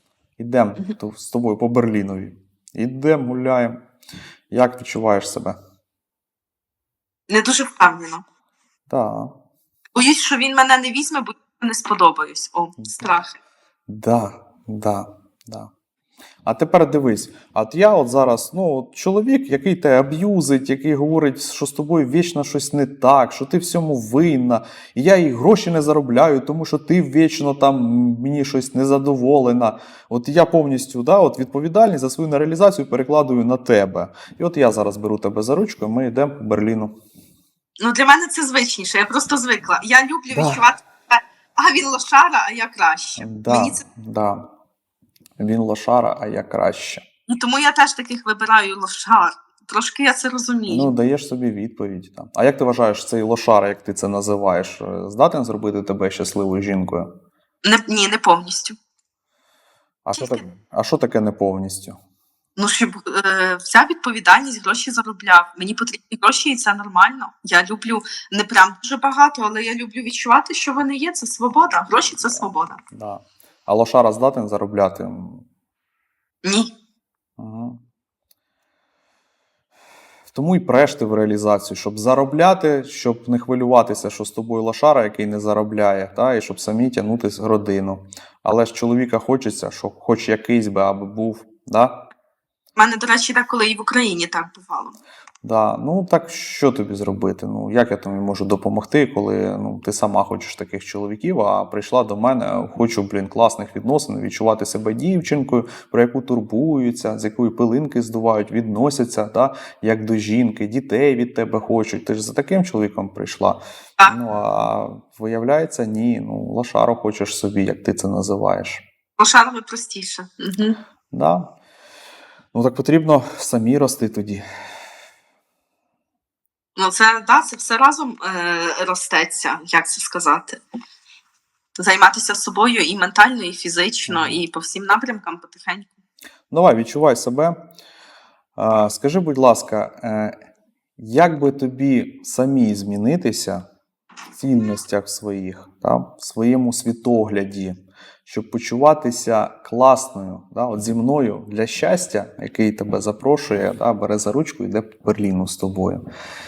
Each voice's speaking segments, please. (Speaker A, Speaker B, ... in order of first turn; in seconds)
Speaker A: 0.4-3.8, 4.5-5.6, 8.9-9.3, 12.8-13.0, 13.9-15.7, 16.4-37.0, 40.3-40.7, 43.2-44.5, 45.4-47.0, 50.7-57.1, 60.1-62.0, 72.0-75.4, 77.4-77.8, 80.3-92.0, 95.4-118.8, 121.1-121.5, 122.5-124.4, 134.1-134.4, 136.5-137.6, 138.6-140.4, 141.0-143.6, 144.3-156.1
Speaker B: 7.3-8.2, 9.9-13.4, 37.8-43.8, 47.3-50.9, 57.6-58.8, 60.1-60.4, 62.6-72.8, 76.4-76.7, 92.8-95.0, 119.2-120.8, 126.8-130.6, 131.8-136.0